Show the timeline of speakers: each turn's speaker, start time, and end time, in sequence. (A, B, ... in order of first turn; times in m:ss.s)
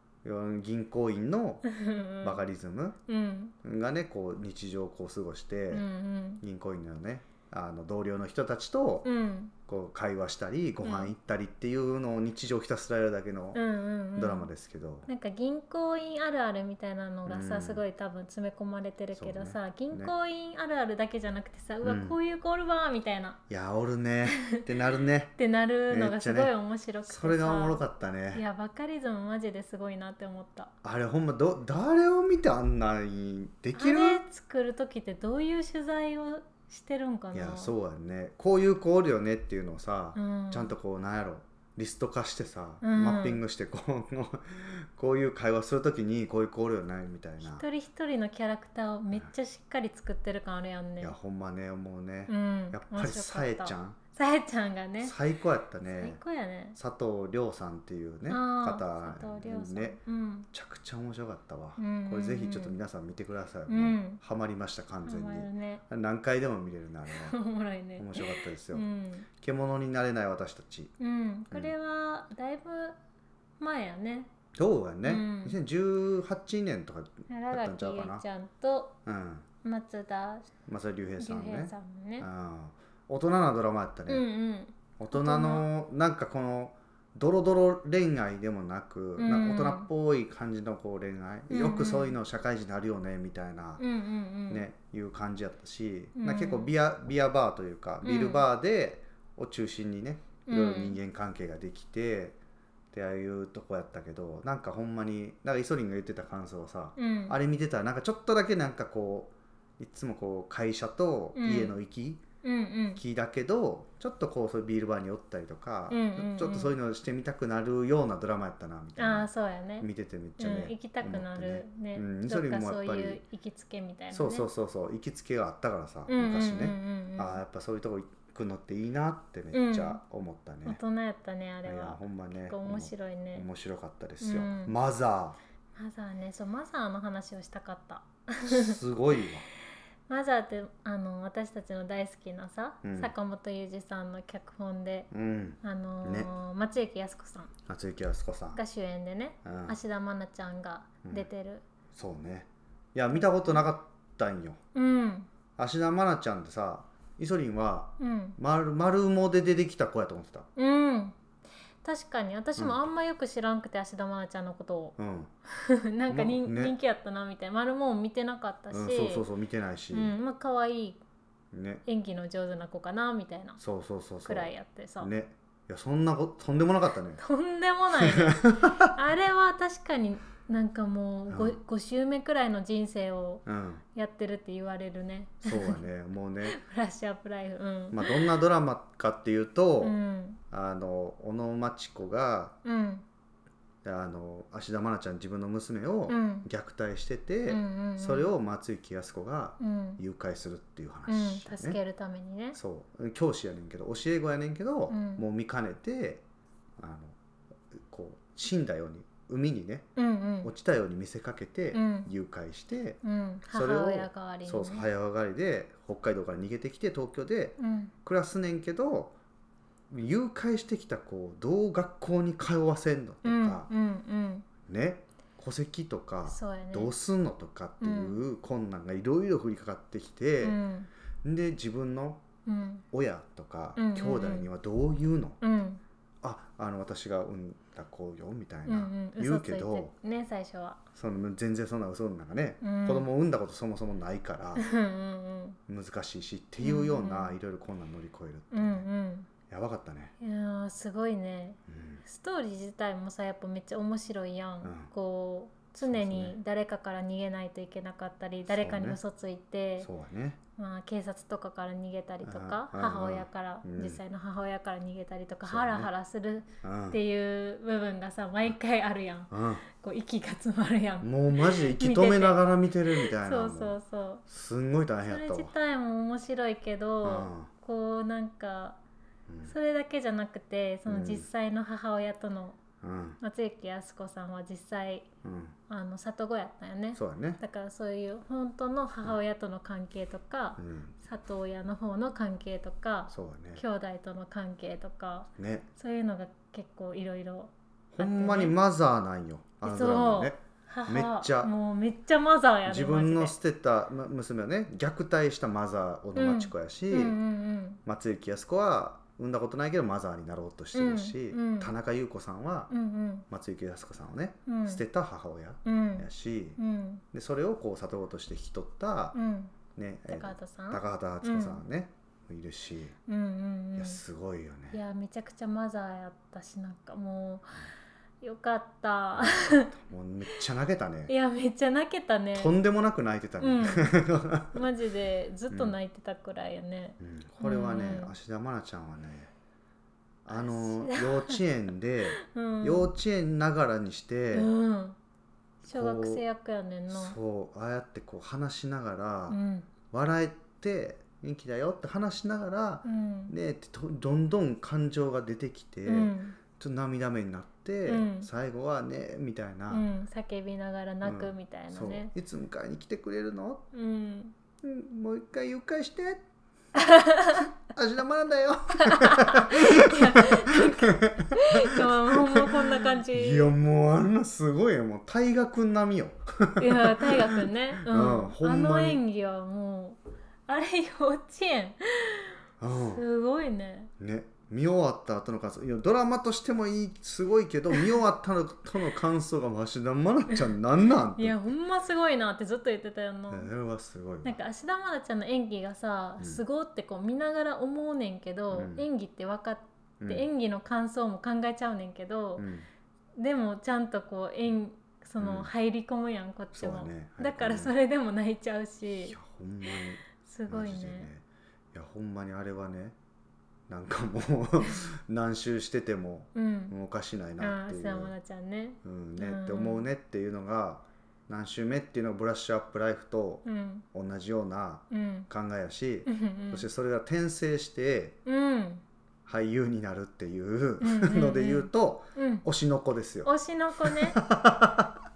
0:00.2-0:01.6 A
0:01.6-0:02.4 B
0:02.2-0:03.0 A
0:03.1-0:03.5 B
0:03.6-0:05.8 A
0:05.7-0:06.4 B
0:06.4-0:09.1 A
0:09.0-0:09.5 B
0:09.7-0:13.6 A
0:10.8-0:11.1 B
0:13.5-0:14.5 B
0:14.1-0:15.1 A
0:15.1-0:23.4 B
0:17.3-0:17.8 A
0:19.1-0:20.1 A
0:21.8-0:22.2 A
0:23.5-0:25.3 A
0:24.3-0:24.6 B
0:25.4-0:30.7 B
0:25.9-0:26.5 A
0:27.0-0:28.4 A
0:30.8-0:34.2 A
0:33.7-0:37.7 B
0:37.3-0:47.6 A
0:40.2-0:40.7 B
0:42.8-0:43.4 B
0:47.4-0:51.1 B
0:51.0-0:54.0 A
0:52.3-0:55.1 B
0:55.0-0:56.2 A
0:55.8-0:56.8 B
0:56.8-1:00.0 A
0:58.3-1:00.5 B
1:00.5-1:07.4 A
1:01.8-1:02.8 B
1:03.7-1:04.2 B
1:05.0-1:05.8 B
1:07.1-1:09.3 B
1:08.0-1:08.8 A
1:09.4-1:10.9 A
1:11.0-1:13.0 B
1:13.6-1:14.3 B
1:14.5-1:18.2 A
1:15.0-1:15.6 B
1:17.3-1:19.0 B
1:19.0-1:19.4 A
1:19.6-1:20.5 B
1:20.7-1:24.2 A
1:21.2-1:22.3 B
1:24.1-1:25.7 B
1:25.0-1:33.8 A
1:29.2-1:29.9 B
1:31.5-1:32.2 B
1:33.8-1:34.6 B
1:34.5-1:42.4 A
1:36.2-1:36.7 B
1:38.0-1:38.4 B
1:40.4-1:41.0 B
1:42.9-1:52.2 A
1:47.0-1:47.4 B
1:51.4-1:51.8 B
1:52.4-1:53.0 B
1:53.0-1:59.3 A
1:55.9-1:56.7 B
1:59.0-2:04.5 B
1:59.8-2:03.2 A
2:04.1-2:10.8 A
2:06.1-2:07.4 B
2:09.5-2:10.0 B
2:10.6-2:13.5 B
2:11.6-2:15.4 A
2:14.2-2:14.7 B
2:15.7-2:18.8 B
2:18.4-2:19.4 A
2:20.1-2:25.1 B
2:22.8-2:23.1 A
2:25.1-2:26.3 A
2:25.6-2:27.5 B
2:27.7-2:28.6 A
2:28.5-2:31.6 B
2:29.4-2:29.8 A
2:31.9-2:34.6 A
2:34.7-2:35.3 B
2:35.6-2:40.5 A
2:38.0-2:38.4 B
2:40.6-2:41.2 B
2:41.8-2:45.0 B
2:45.0-2:45.3 A
2:45.5-2:49.2 B
2:46.1-2:46.8 A
2:48.7-2:50.1 A
2:49.9-2:51.0 B
2:51.5-2:51.8 A
2:51.8-2:53.6 B
2:53.6-2:57.2 A
2:54.2-2:55.1 B
2:57.2-3:05.8 B
2:58.0-2:58.9 A
3:01.3-3:01.6 A
3:03.4-3:03.8 A
3:05.4-3:06.6 A
3:06.4-3:08.3 B
3:07.9-3:10.0 A
3:09.8-3:10.4 B
3:10.5-3:12.6 A
3:12.6-3:13.0 B
3:13.8-3:21.8 A
3:16.1-3:16.5 B
3:17.5-3:18.3 B
3:19.6-3:20.0 B
3:21.1-3:22.6 B
3:22.5-3:26.2 A
3:24.9-3:25.2 B
3:26.8-3:27.2 A
3:27.7-3:29.9 A
3:30.0-3:30.5 B
3:30.4-3:33.0 A
3:31.7-3:32.1 B
3:33.0-3:34.9 B
3:33.5-3:39.1 A
3:37.6-3:37.9 B
3:39.9-3:43.7 A
3:43.2-3:44.5 B
3:44.6-3:50.6 A
3:46.3-3:46.9 B
3:47.8-3:48.2 B
3:50.4-3:50.9 B
3:51.2-3:52.2 A
3:52.4-3:52.8 B
3:52.9-3:55.4 A
3:53.8-3:54.5 B
3:55.4-3:55.8 B
3:56.2-3:59.9 A
3:58.6-4:00.8 B
4:00.9-4:04.6 A
4:02.6-4:03.1 B
4:04.6-4:05.6 B
4:05.7-4:08.8 A
4:06.6-4:07.4 B
4:08.5-4:09.3 B
4:09.5-4:10.1 A
4:10.2-4:19.9 B
4:11.7-4:12.0 A
4:14.6-4:14.9 A
4:15.8-4:16.4 A
4:18.4-4:19.0 A
4:19.8-4:20.4 A
4:20.6-4:34.2 B
4:22.2-4:24.0 A
4:25.4-4:25.9 A
4:26.6-4:27.0 A
4:29.3-4:29.6 A
4:31.0-4:33.8 A
4:34.3-4:35.5 A
4:35.0-4:38.8 B
4:37.0-4:37.5 A
4:39.3-4:39.5 A
4:39.4-4:42.6 B
4:40.9-4:41.2 A
4:42.8-4:43.2 A
4:43.2-4:45.1 B
4:45.2-4:45.5 A
4:45.7-4:58.6 B
4:46.9-4:47.4 A
4:50.6-4:50.9 A
4:53.1-4:53.6 A
4:55.4-4:55.7 A
4:57.9-5:01.5 A
4:59.6-5:03.3 B
5:02.7-5:07.2 A
5:06.2-5:07.8 B
5:07.8-5:12.7 A
5:10.7-5:11.7 B
5:12.7-5:13.2 B
5:13.3-5:16.6 A
5:14.5-5:14.8 B
5:15.6-5:17.0 B
5:17.1-5:19.2 A
5:19.1-5:19.5 B
5:19.7-5:22.9 A
5:20.1-5:21.6 B
5:23.1-5:24.0 B
5:23.8-5:24.8 A
5:24.7-5:27.7 B
5:28.2-5:29.7 B
5:29.1-5:31.1 A
5:31.1-5:32.5 B
5:32.3-5:34.6 A
5:33.4-5:34.0 B
5:34.5-5:38.1 B
5:35.5-5:35.8 A
5:37.0-5:39.3 A
5:40.2-5:44.5 A
5:40.3-5:41.4 B
5:42.2-5:42.9 B
5:44.3-5:45.0 B
5:45.6-5:47.1 B
5:45.7-5:46.2 A
5:46.9-5:49.4 A
5:49.3-5:49.7 B
5:49.9-5:59.8 A
5:52.8-5:53.3 B
5:55.8-5:56.4 B
5:57.8-5:58.3 B
5:59.7-6:02.1 B
6:01.0-6:03.6 A
6:03.7-6:04.3 B
6:04.6-6:06.2 A
6:06.7-6:07.5 B
6:07.3-6:19.0 A
6:08.8-6:13.6 B
6:16.6-6:23.9 B
6:22.6-6:23.0 A
6:24.0-6:31.4 A
6:31.1-6:33.5 B
6:33.3-6:34.4 A
6:34.2-6:42.5 B
6:38.5-6:38.8 A
6:40.0-6:40.3 A
6:42.4-6:42.7 A
6:43.2-6:49.2 B
6:45.2-6:45.5 A
6:46.5-6:47.7 A
6:49.0-6:53.0 A
6:50.2-6:51.1 B
6:53.7-6:58.1 A
6:56.3-6:56.7 B
6:57.4-6:59.8 B
6:58.8-7:08.2 A
7:03.4-7:03.8 B
7:04.9-7:05.3 B
7:06.0-7:06.7 B
7:08.2-7:08.8 B
7:09.2-7:14.9 A
7:10.8-7:12.4 B
7:13.2-7:14.2 B